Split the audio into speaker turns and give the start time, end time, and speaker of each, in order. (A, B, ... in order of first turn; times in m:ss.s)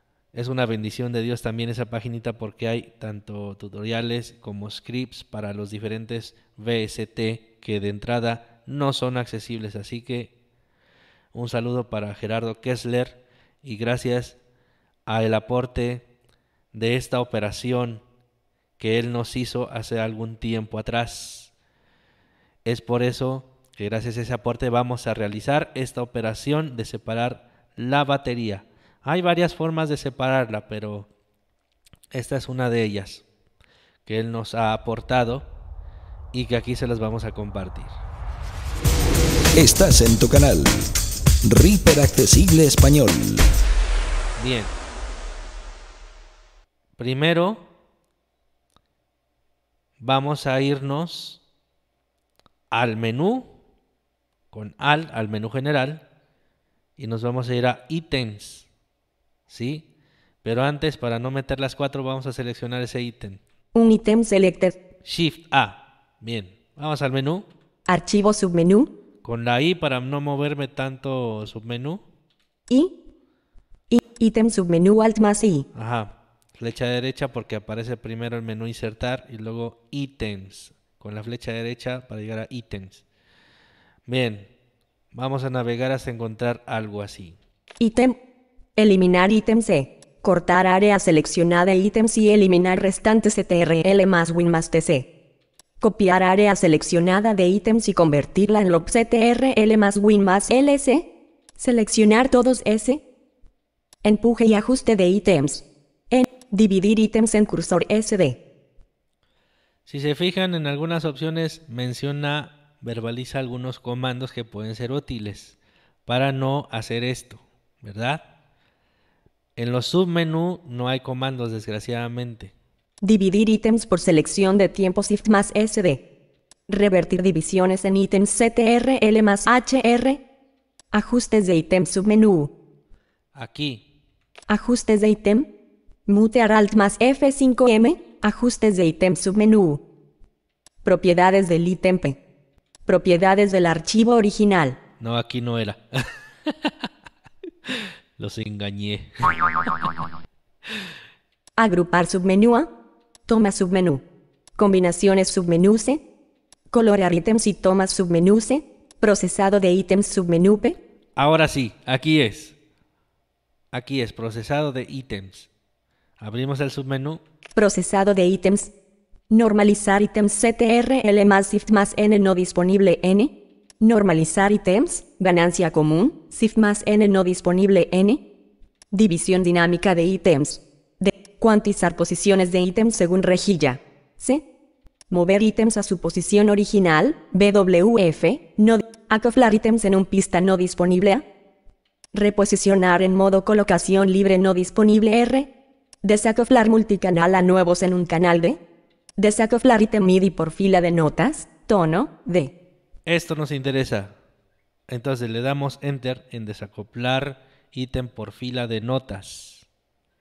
0:00.3-0:10.3 A
0:11.3-0:14.4 A
0:15.1-0:16.0 A
0:16.7-0:18.0 A
0:18.8-0:21.5 A
0:22.6-0:31.1 A
0:32.1-0:33.2 A
0:34.1-0:35.5 A
0:36.3-0:37.9 A
0:39.6-0:40.9 B
0:41.4-0:43.5 B
0:44.4-0:44.7 A
0:47.0-0:47.7 A
0:50.0-0:51.4 A
0:52.7-0:53.5 A
0:54.5-0:56.0 A
0:57.0-0:58.7 A
0:59.5-0:59.8 A
1:00.4-1:03.4 A
1:03.7-1:04.8 C
1:05.0-1:07.5 A
1:07.9-1:08.9 C
1:09.2-1:12.0 A
1:12.7-1:13.0 C
1:13.9-1:15.7 C
1:15.7-1:23.0 A
1:24.1-1:24.5 A
1:25.1-1:27.4 A
1:27.8-1:28.2 C
1:28.8-1:35.1 C
1:35.8-1:43.0 C
1:44.0-1:48.4 C
1:49.9-1:58.2 A
1:59.6-2:02.5 A
2:03.0-2:06.0 C
2:06.7-2:10.2 C
2:10.9-2:12.5 C
2:13.4-2:13.8 A
2:14.5-2:15.5 C
2:16.1-2:19.8 C
2:20.8-2:22.2 C
2:22.9-2:24.8 C
2:25.0-2:26.9 A
2:27.7-2:29.9 A
2:31.6-2:32.7 C
2:33.3-2:34.0 C
2:34.6-2:36.0 C
2:36.7-2:40.8 C
2:41.2-2:42.6 A
2:43.7-2:45.5 A
2:46.2-2:47.2 A
2:47.6-2:48.7 C
2:49.3-2:58.2 C
2:58.9-3:04.4 C
3:05.1-3:11.2 C
3:12.1-3:15.5 C
3:16.0-3:18.6 C
3:19.2-3:22.5 C
3:23.1-3:24.1 A
3:24.9-3:29.6 A